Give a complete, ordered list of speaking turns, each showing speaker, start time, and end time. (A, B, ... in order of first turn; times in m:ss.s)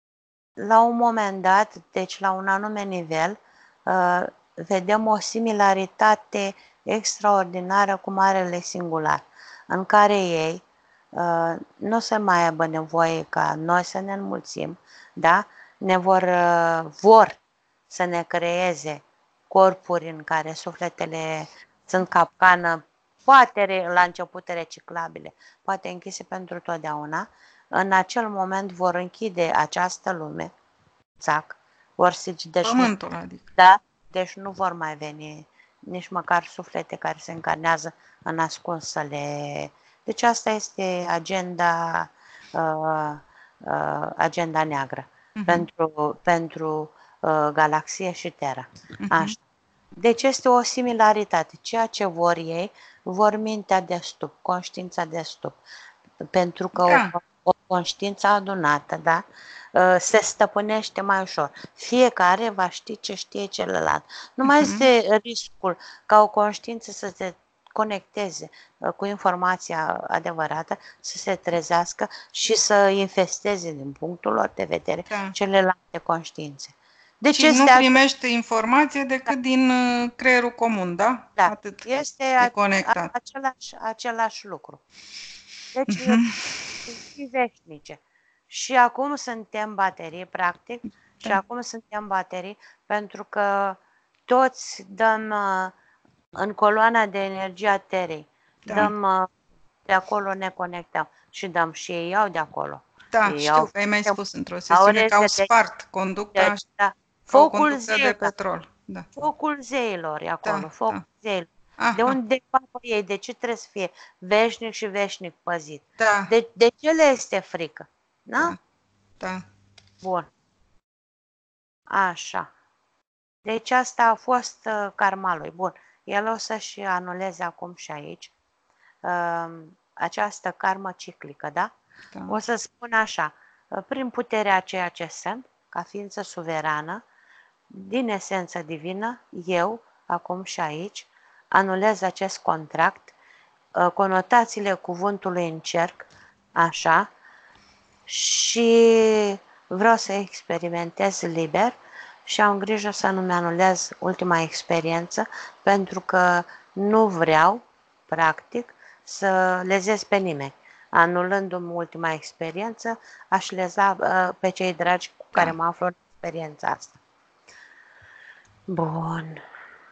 0:00.6-0:17.4 A
0:17.9-0:30.5 A
0:31.2-0:32.9 A
0:32.6-0:33.4 B
0:33.6-0:49.4 A
0:45.4-0:45.6 B
0:49.0-0:49.3 B
0:50.0-0:55.6 A
0:56.3-0:59.2 A
0:56.8-0:57.1 B
0:59.7-1:18.0 A
1:04.4-1:04.9 B
1:15.1-1:15.4 B
1:17.3-1:21.8 B
1:21.4-1:24.8 A
1:22.4-1:23.1 B
1:25.7-1:26.2 A
1:25.9-1:26.6 B
1:26.8-1:28.0 A
1:28.5-1:35.7 A
1:36.4-1:39.3 A
1:38.6-1:38.9 B
1:39.9-1:44.2 A
1:43.1-1:46.6 B
1:44.7-1:45.5 A
1:46.3-1:48.3 A
1:47.3-1:49.1 B
1:49.1-1:58.6 A
1:50.4-1:51.0 B
1:51.8-1:52.1 B
1:56.0-1:56.3 B
2:00.0-2:00.3 A
2:01.9-2:02.5 A
2:03.4-2:08.3 A
2:09.0-2:11.7 A
2:12.3-2:17.0 A
2:17.7-2:23.1 A
2:23.8-2:27.1 A
2:28.1-2:31.7 A
2:32.3-2:47.0 A
2:48.7-2:49.4 A